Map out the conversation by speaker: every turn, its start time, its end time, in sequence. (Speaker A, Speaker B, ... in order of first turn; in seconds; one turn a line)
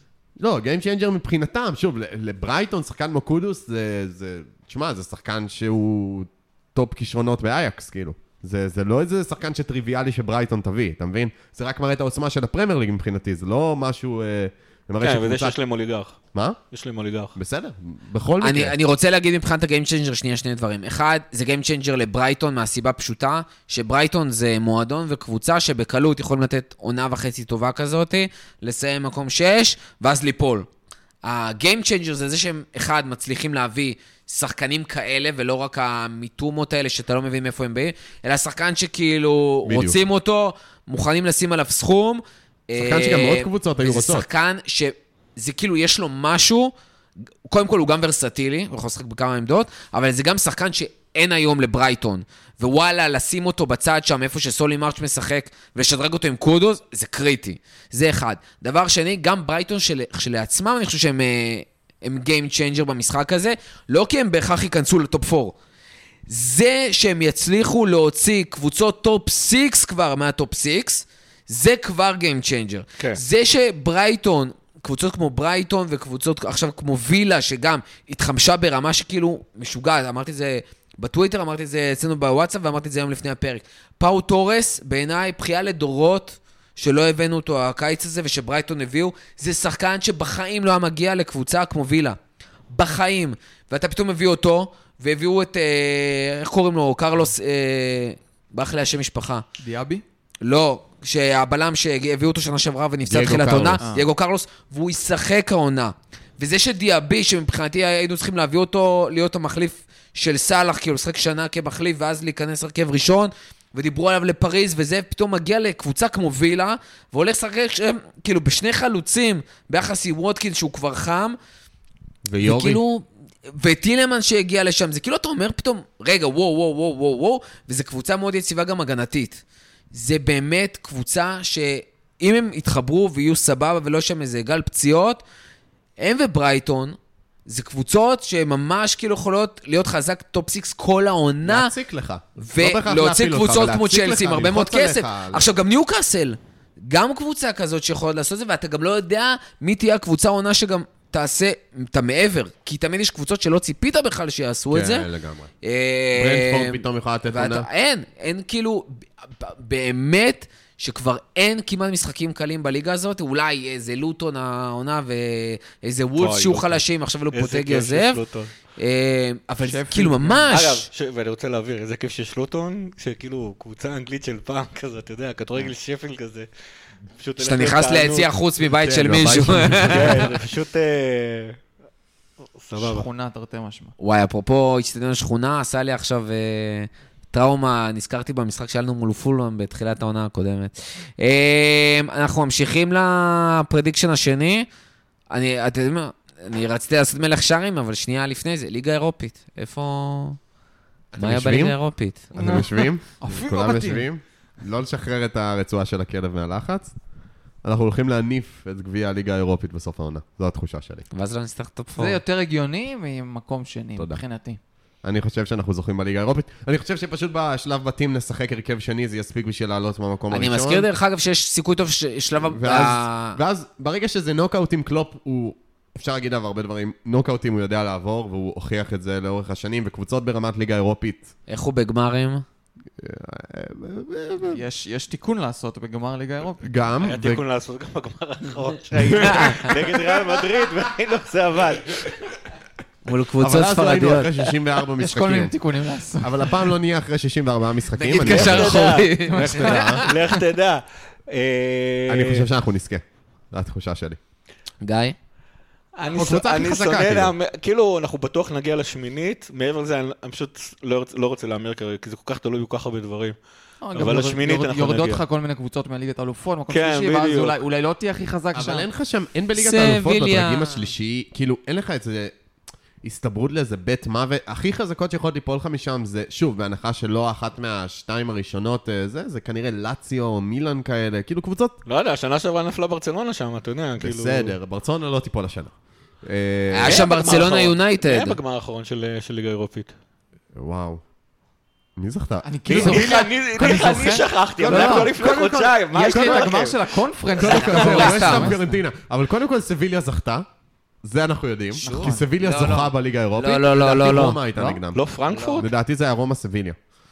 Speaker A: 0.4-15.6
Speaker B: 15.0-16.2
Speaker B: 16.7-17.3
Speaker A: 17.4-18.8
Speaker C: 18.4-30.7
Speaker C: 31.2-46.7
Speaker A: 39.6-40.0
Speaker A: 42.8-44.3
Speaker C: 47.5-65.5
Speaker C: 66.3-92.2
Speaker C: 92.7-99.4
Speaker D: 99.6-100.0
Speaker C: 100.4-121.4
Speaker A: 103.0-103.8
Speaker D: 103.8-104.0
Speaker A: 122.2-122.8
Speaker C: 122.4-135.2
Speaker C: 136.0-141.7
Speaker A: 141.4-145.5
Speaker C: 142.4-155.1
Speaker A: 154.7-155.5
Speaker C: 155.6-168.2
Speaker A: 156.1-157.7
Speaker B: 166.2-168.5
Speaker C: 168.8-170.9
Speaker D: 169.6-170.5
Speaker B: 170.5-176.5
Speaker B: 177.2-178.3
Speaker C: 177.4-180.3
Speaker A: 178.7-180.3
Speaker B: 179.8-181.6
Speaker B: 182.6-183.1
Speaker D: 182.7-183.9
Speaker C: 184.0-194.7
Speaker C: 195.3-200.4
Speaker A: 201.1-201.8
Speaker C: 201.2-202.3
Speaker A: 202.3-206.9
Speaker D: 202.4-204.1
Speaker A: 207.6-211.1
Speaker C: 211.1-212.2
Speaker D: 211.9-214.6
Speaker A: 215.0-220.9
Speaker C: 220.3-223.4
Speaker A: 222.4-231.3
Speaker C: 231.5-232.4
Speaker A: 233.0-234.6
Speaker D: 234.4-236.7
Speaker A: 236.6-237.4
Speaker B: 237.0-242.2
Speaker A: 239.0-239.6
Speaker C: 239.3-239.7
Speaker C: 243.1-244.5
Speaker A: 243.4-245.6
Speaker D: 245.0-246.6
Speaker A: 246.2-250.1
Speaker C: 247.9-250.0
Speaker B: 248.2-249.2
Speaker D: 249.1-250.3
Speaker B: 250.0-252.5
Speaker A: 252.1-254.2
Speaker C: 254.8-255.2
Speaker B: 255.9-263.4
Speaker A: 256.1-257.3
Speaker D: 263.8-268.9
Speaker B: 263.9-265.2
Speaker B: 266.7-267.6
Speaker A: 268.5-272.3
Speaker C: 269.6-270.9
Speaker A: 273.0-281.8
Speaker B: 281.9-284.6
Speaker A: 284.0-287.5
Speaker C: 286.7-288.4
Speaker B: 286.8-289.9
Speaker A: 290.6-291.0
Speaker A: 292.0-293.1
Speaker D: 292.4-298.8
Speaker B: 292.7-296.8
Speaker A: 294.6-296.4
Speaker A: 297.4-300.4
Speaker C: 297.5-298.5
Speaker B: 297.5-297.8
Speaker A: 301.0-306.8
Speaker D: 301.8-302.3
Speaker C: 301.8-304.4
Speaker B: 304.9-305.7
Speaker C: 305.3-305.7